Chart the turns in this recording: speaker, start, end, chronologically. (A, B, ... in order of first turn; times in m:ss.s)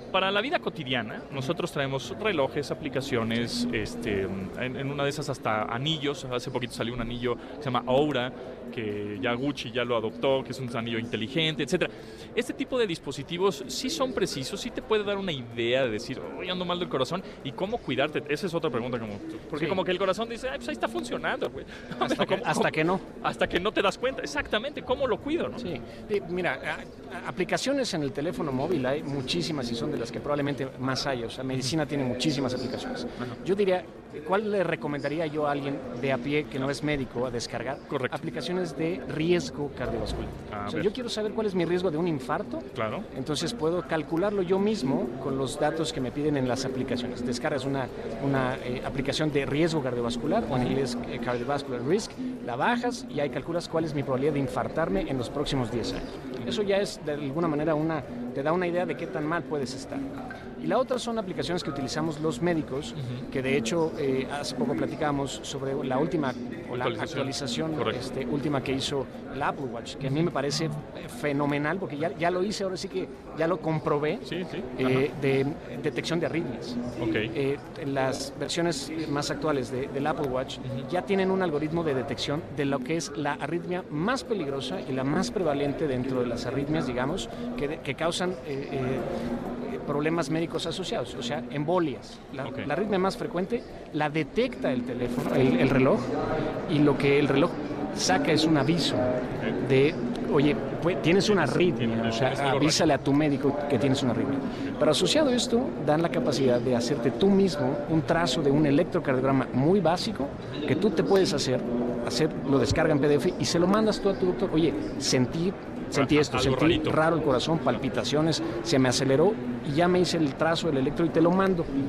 0:00.1-0:25.7 A
0:22.0-0:23.0 B
0:25.6-1:00.1 B
0:37.9-0:38.3 A
0:40.5-0:41.0 A
0:42.7-0:43.1 A
0:50.5-0:50.8 A
1:00.6-1:29.1 B
1:06.7-1:08.0 A
1:14.2-1:15.1 A
1:17.0-1:17.3 A
1:29.6-1:36.1 B
1:32.4-1:32.7 A
1:36.7-2:01.7 B
1:41.2-1:43.0 A
1:55.9-1:57.0 A